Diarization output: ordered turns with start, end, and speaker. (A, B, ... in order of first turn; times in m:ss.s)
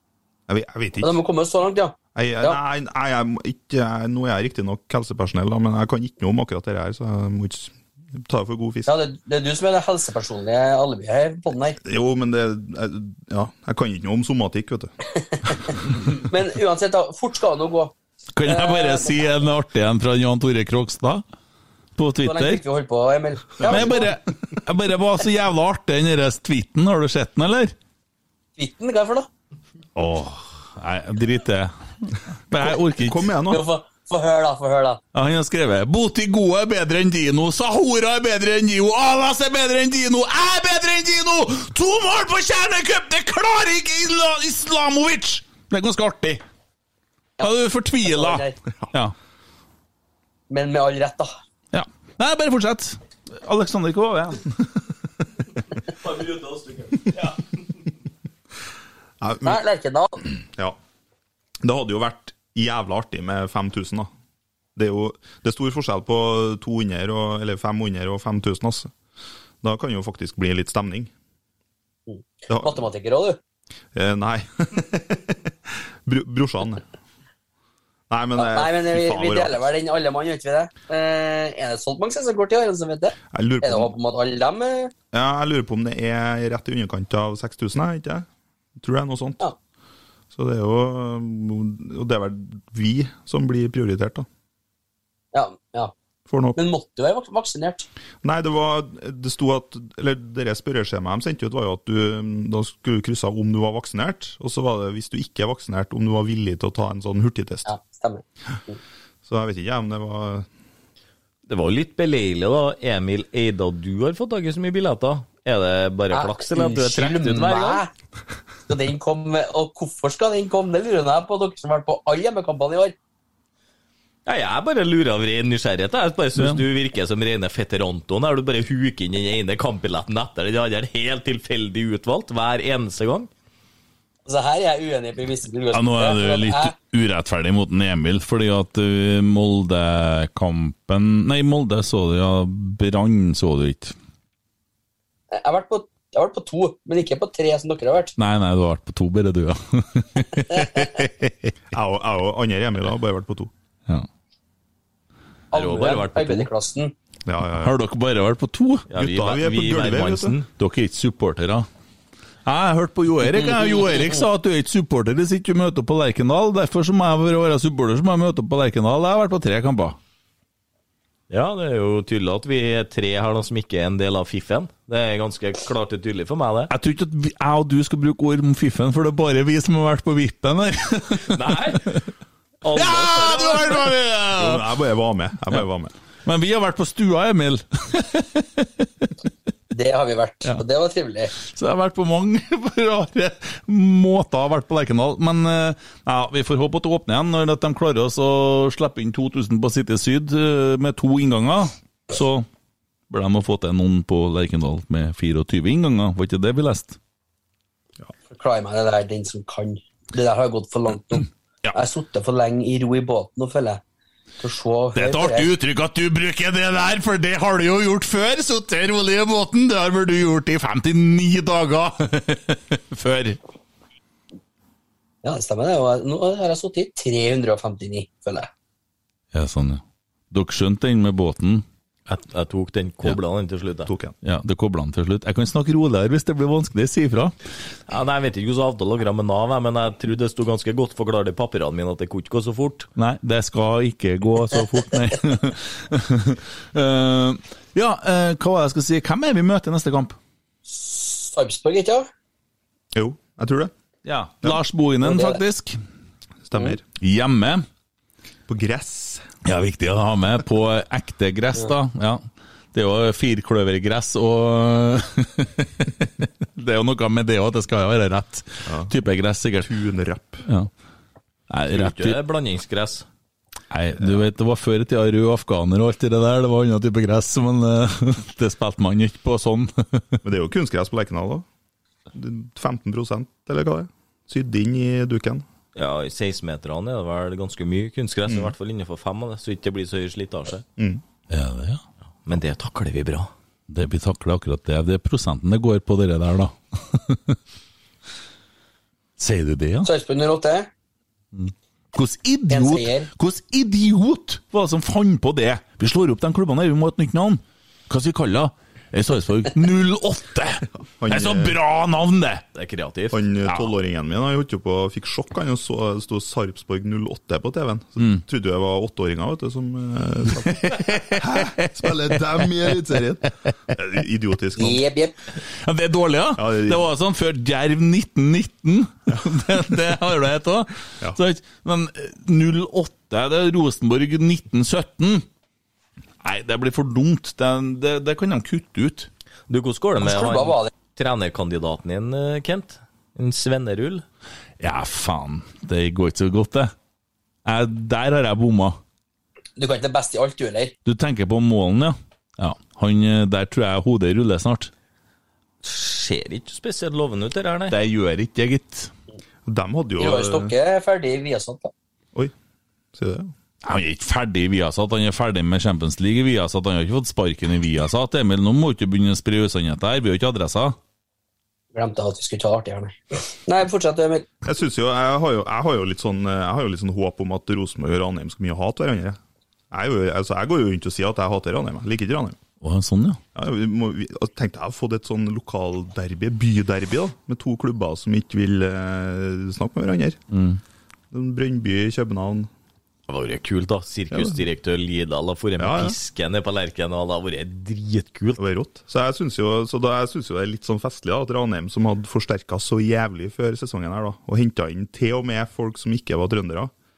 0:00.5-0:01.1 A
0:01.0-0:02.6 B
0:02.2-0:08.9 A
0:08.9-0:11.8 B
0:11.8-0:14.9 A
0:15.3-0:15.6 B
0:16.1-0:17.9 B
0:18.4-0:21.2 C
0:18.5-0:19.2 B
0:22.0-0:22.6 C
0:22.2-0:24.1 B
0:23.6-0:27.7 C
0:28.6-0:29.3 B
0:30.0-0:33.3 C
0:33.0-0:33.6 A
0:33.5-0:35.0 B
0:35.1-0:46.4 C
0:47.4-0:49.2 C
0:48.0-0:48.6 B
0:50.5-0:51.3 B
0:51.7-0:54.5 C
0:55.9-0:57.6 D
0:59.2-0:59.6 A
0:59.4-1:00.2 B
1:00.5-1:00.8 A
1:01.6-1:04.1 A
1:04.8-1:08.9 A
1:09.6-1:11.1 A
1:12.1-1:13.4 B
1:12.5-1:12.8 A
1:13.9-1:16.8 A
1:18.1-1:19.7 A
1:18.4-1:24.9 B
1:23.3-1:23.9 A
1:25.1-1:28.3 A
1:28.8-1:29.4 A
1:30.3-1:34.3 A
1:35.3-1:35.9 B
1:36.3-1:36.6 A
1:36.6-1:37.9 B
1:38.2-1:47.7 A
1:47.7-1:48.8 B
1:49.3-1:50.5 A
1:51.5-1:57.8 D
1:56.1-1:57.9 B
1:58.7-2:03.0 B
2:04.3-2:13.3 D
2:14.3-2:16.7 B
2:15.7-2:24.0 C
2:25.3-2:28.1 B
2:28.2-2:31.5 C
2:31.7-2:33.5 A
2:35.5-2:36.9 B
2:35.5-2:36.5 D
2:37.3-2:37.8 A
2:37.6-2:38.9 C
2:38.9-2:40.5 D
2:39.0-2:40.3 A
2:40.6-2:41.7 C
2:42.5-2:50.0 C
2:43.4-2:44.2 B
2:51.3-2:56.7 D
2:56.7-3:02.0 C
3:01.3-3:01.9 D
3:02.6-3:03.9 D
3:02.8-3:04.7 C
3:04.4-3:05.9 A
3:06.3-3:09.1 C
3:09.7-3:11.3 B
3:11.4-3:22.5 C
3:23.1-3:27.0 C
3:28.3-3:33.8 B
3:34.4-3:35.5 B
3:35.0-3:43.4 C
3:45.2-3:48.5 B
3:49.3-3:51.6 C
3:52.1-3:53.9 D
3:53.9-3:54.2 A
3:54.2-3:57.4 C
3:57.9-4:02.9 D
4:03.0-4:10.2 C
4:10.7-4:12.1 B
4:12.9-4:13.7 A
4:14.0-4:15.8 C
4:15.0-4:15.4 B
4:16.4-4:16.8 A
4:17.0-4:17.7 C
4:18.5-4:19.2 A
4:19.4-4:22.2 C
4:22.7-4:29.7 C
4:28.7-4:28.9 A
4:29.6-4:30.4 A
4:30.4-4:30.7 C
4:31.5-4:32.2 C
4:31.7-4:33.1 D
4:33.7-4:40.2 C
4:40.2-4:41.5 A
4:42.1-4:45.5 A
4:45.8-4:50.6 D
4:48.3-4:48.5 A
4:50.8-4:51.0 A
4:51.3-4:51.8 C
4:52.3-4:53.3 D
4:53.7-4:57.4 C
4:59.2-4:59.9 C
4:59.8-5:00.7 B
5:01.3-5:12.4 C
5:02.5-5:03.1 B
5:11.0-5:11.6 A
5:12.6-5:13.7 D
5:13.1-5:24.8 A
5:20.3-5:22.8 C
5:24.6-5:25.2 B
5:25.6-5:35.2 C
5:26.4-5:26.9 A
5:36.2-5:39.1 C
5:39.5-5:44.1 D
5:40.0-5:40.7 B
5:44.6-5:46.7 C
5:47.5-5:48.8 C
5:49.6-5:50.7 B
5:50.8-5:54.7 C
5:55.6-5:57.8 D
5:57.7-5:58.9 C
5:59.5-6:00.5 A
6:00.0-6:01.7 B
6:02.9-6:03.3 A
6:03.6-6:10.8 C
6:11.7-6:14.3 B
6:14.4-6:19.2 A
6:19.7-6:22.4 A
6:22.6-6:23.2 C
6:23.4-6:30.2 A
6:30.3-6:30.6 C
6:31.1-6:32.5 A
6:33.1-6:38.4 D
6:34.1-6:34.4 A
6:35.6-6:36.0 A
6:38.4-6:46.7 A